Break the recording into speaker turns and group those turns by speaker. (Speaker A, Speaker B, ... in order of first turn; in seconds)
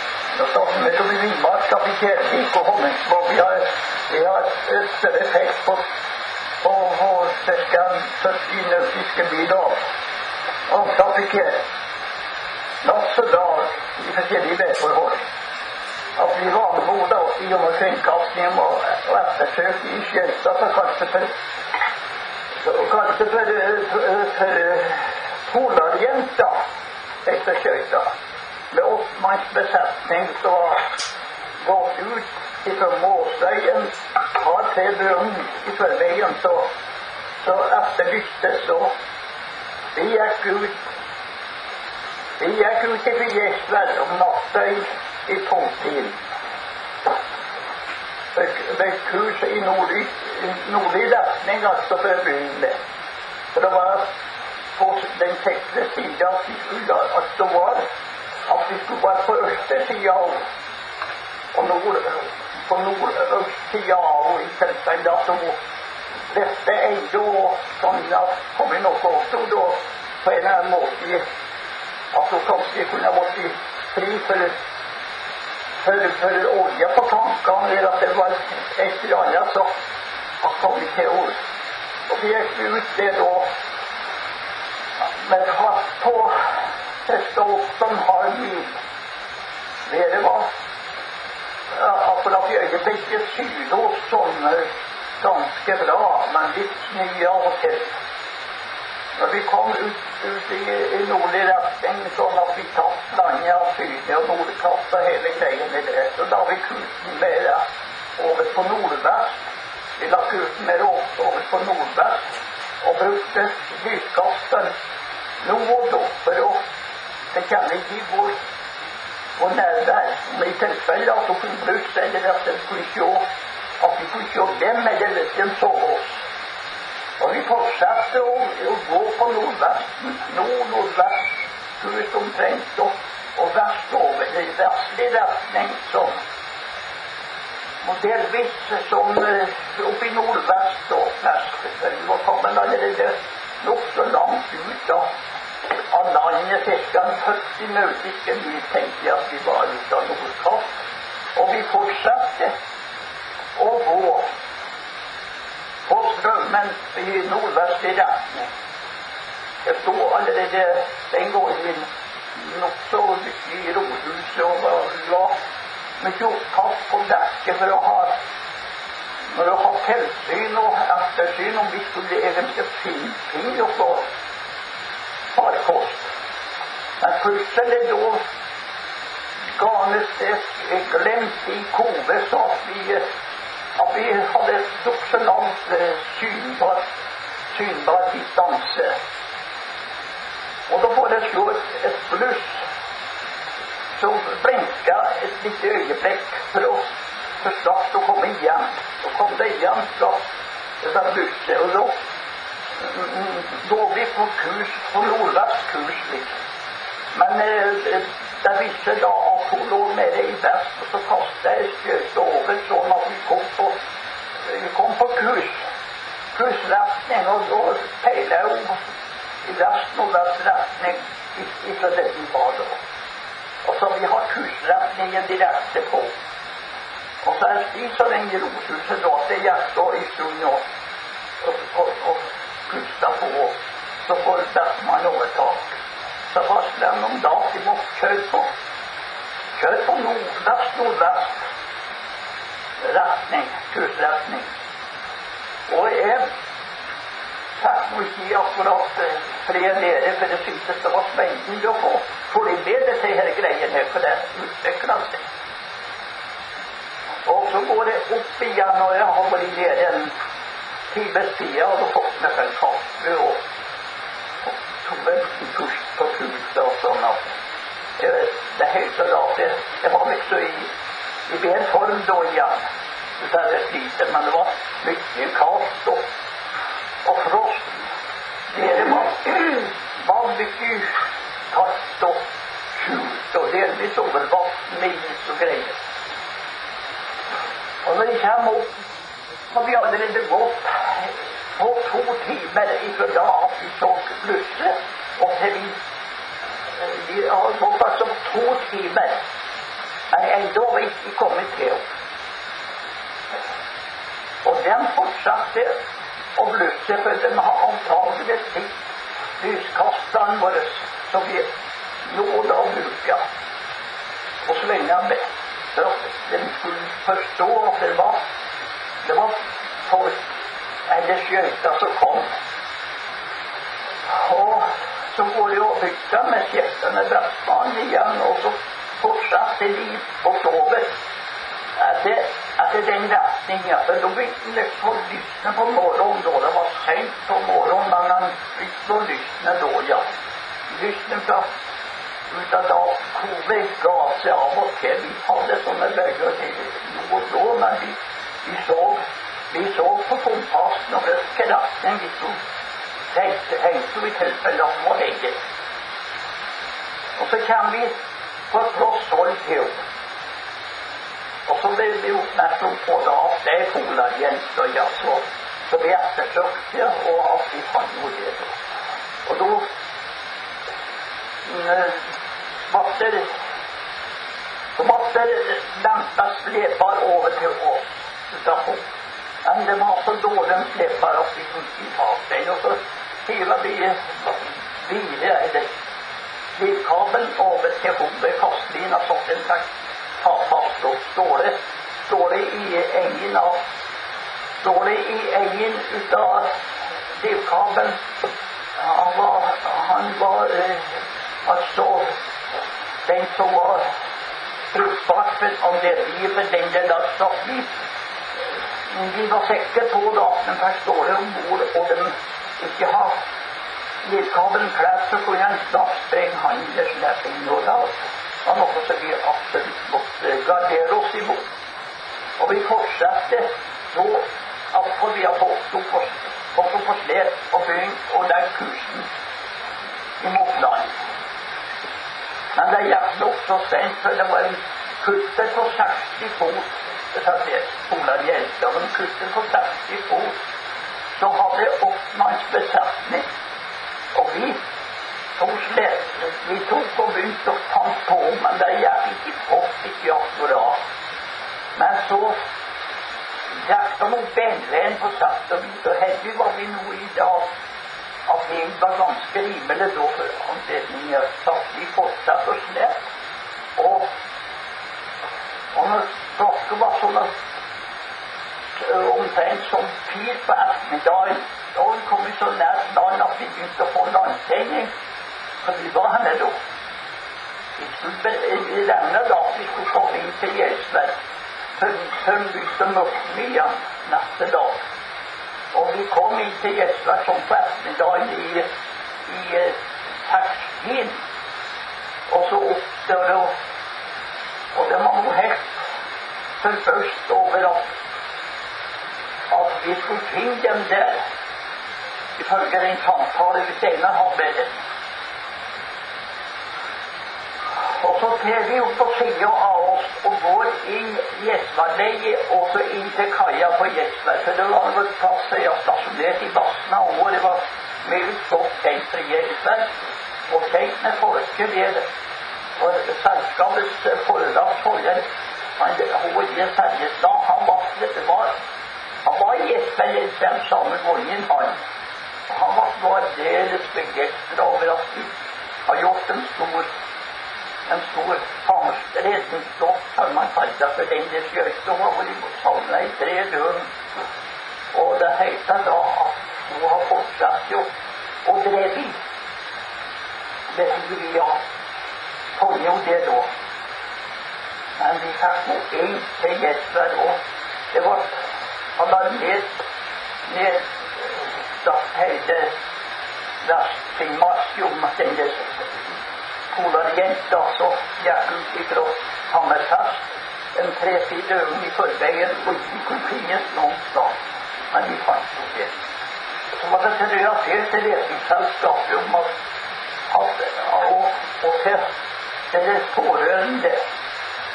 Speaker A: 0.3-5.8, 6.6-9.8, 10.7-11.6, 12.8-15.2, 16.2-21.3, 22.6-26.6, 27.2-28.1, 28.7-30.8, 31.6-36.7, 37.4-38.9, 39.9-40.8, 42.4-46.2, 48.3-52.8, 53.5-54.1, 54.8-57.8, 58.5-60.5, 61.5-65.6, 66.3-71.2, 72.1-74.6, 75.8-79.7, 80.4-81.4, 82.1-83.5, 85.0-88.8, 89.8-90.5, 91.7-97.9, 99.2-107.6, 108.2-109.4, 110.0-114.7, 115.4-116.6, 117.3-118.4, 119.4-123.2, 123.8-126.2, 127.2-136.2, 137.8-145.1, 145.9-150.8, 151.3-152.5, 153.5-154.3, 155.8-158.5, 159.6-165.4, 166.0-168.2, 169.3-174.1, 175.3-176.1, 177.0-178.2, 179.6-183.0, 183.8-186.9, 187.5-189.0, 190.7-192.6, 194.0-196.8, 197.4-200.2, 200.8-201.9, 202.8-206.4, 207.1-213.8, 214.4-215.6, 216.3-218.8, 219.4-222.8, 223.6-226.1, 227.2-230.6, 231.4-235.8, 236.3-238.5, 239.6-241.4, 242.8-244.5, 245.7-246.3, 247.6-255.2, 257.2-260.1, 260.9-263.4, 264.4-267.3, 268.0-270.7, 271.3-272.6, 273.2-276.0, 277.0-277.9, 278.5-281.0, 281.5-282.2, 282.7-285.8, 287.8-288.8, 289.5-295.8, 296.7-299.2, 300.1-301.9, 304.4-305.8, 306.3-308.8, 309.4-311.5, 312.0-313.2, 314.4-318.2, 319.0-320.2, 320.9-322.3, 324.1-330.9, 331.8-340.1, 340.7-341.5, 342.3-352.4, 353.1-355.4, 357.2-357.9, 358.5-359.8, 361.4-368.6, 369.2-369.6, 371.4-372.0, 372.7-373.4, 374.7-378.8, 379.4-385.7, 386.6-389.7, 390.2-393.6, 394.6-396.5, 397.1-398.0, 398.8-402.1, 403.0-403.9, 404.7-407.7, 408.8-413.2, 414.0-421.5, 422.4-429.1, 430.2-431.0, 432.5-440.4, 441.1-443.3, 444.1-444.6, 445.4-450.8, 451.7-452.4, 453.5-457.5, 458.3-463.0, 463.8-464.1, 465.7-467.3, 468.8-474.9, 475.6-476.6, 477.8-481.1, 481.7-484.8, 485.7-488.7, 489.2-491.2, 492.3-493.5, 494.7-495.8, 496.6-497.9, 499.5-501.2, 502.4-504.8, 507.8-519.9, 520.5-522.1, 522.8-525.2, 525.8-528.5, 529.2-531.8, 532.5-535.3, 535.9-536.9, 537.9-543.9, 544.9-547.9, 548.4-549.2, 550.7-551.6, 552.5-553.5, 555.0-557.4, 557.9-558.4, 559.0-559.7, 560.5-562.7, 563.6-566.0, 566.7-574.4, 574.9-575.9, 576.7-579.5, 580.3-582.0, 582.7-584.0